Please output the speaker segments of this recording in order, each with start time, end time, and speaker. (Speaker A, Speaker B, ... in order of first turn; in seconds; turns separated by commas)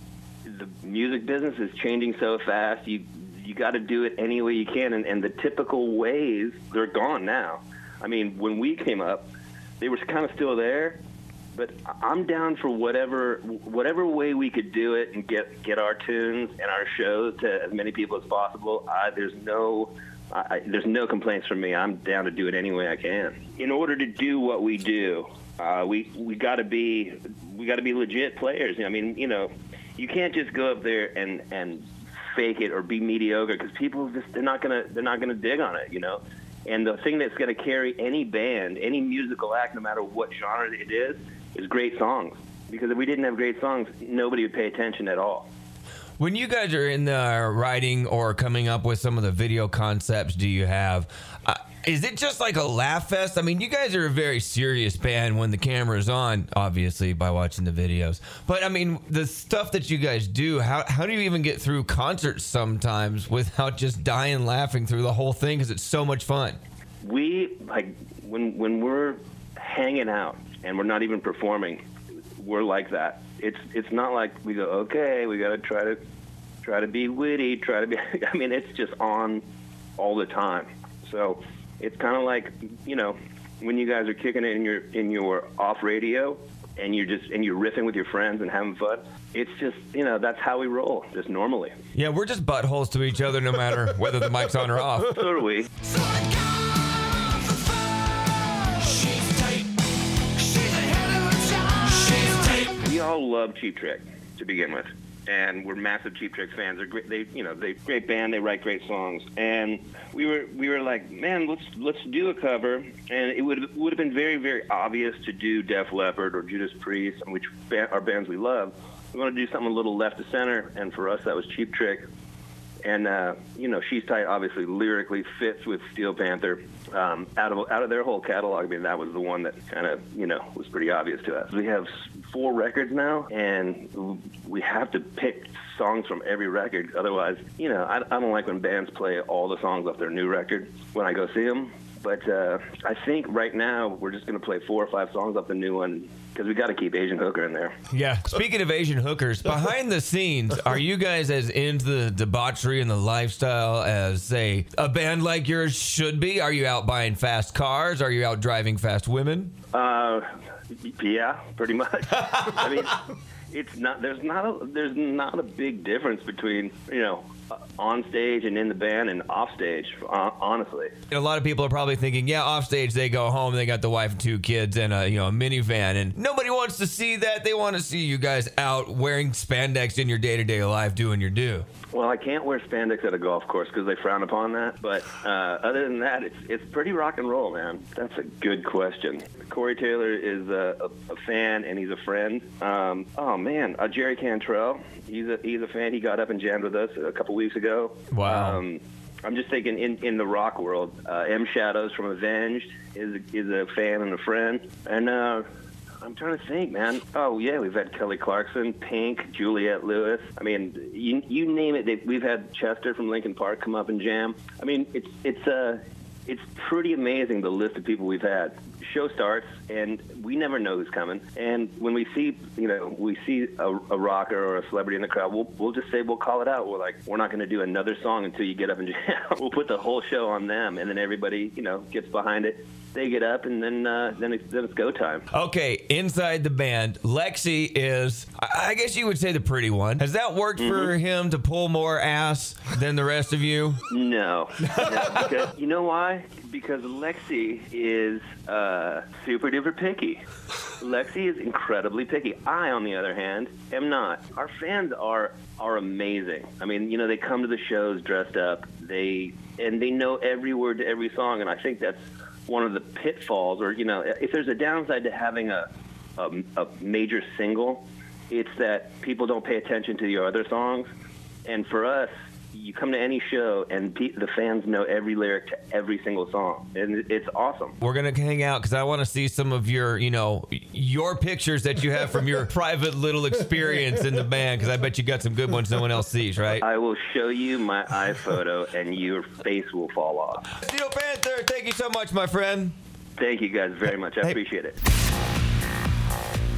Speaker A: 0.5-9.3, Speaker A: 9.8-11.0, Speaker A: 11.6-45.5, Speaker B: 46.2-66.6, Speaker A: 67.0-71.8, Speaker A: 72.4-76.0, Speaker A: 76.6-79.4, Speaker A: 80.0-91.7, Speaker B: 92.0-95.2, Speaker A: 95.1-95.7, Speaker A: 102.7-122.0, Speaker A: 122.8-147.8, Speaker B: 147.9-159.5, Speaker A: 159.7-160.3, Speaker A: 160.8-170.9, Speaker B: 171.1-181.7, Speaker A: 181.9-205.5, Speaker B: 198.1-198.6, Speaker A: 206.0-235.3, Speaker B: 235.3-243.8, Speaker A: 240.6-240.9, Speaker A: 243.9-250.2, Speaker B: 244.7-245.3, Speaker A: 250.8-270.9, Speaker A: 271.5-277.8, Speaker B: 277.8-286.6, Speaker A: 286.6-290.5, Speaker B: 290.6-292.8, Speaker A: 293.2-294.8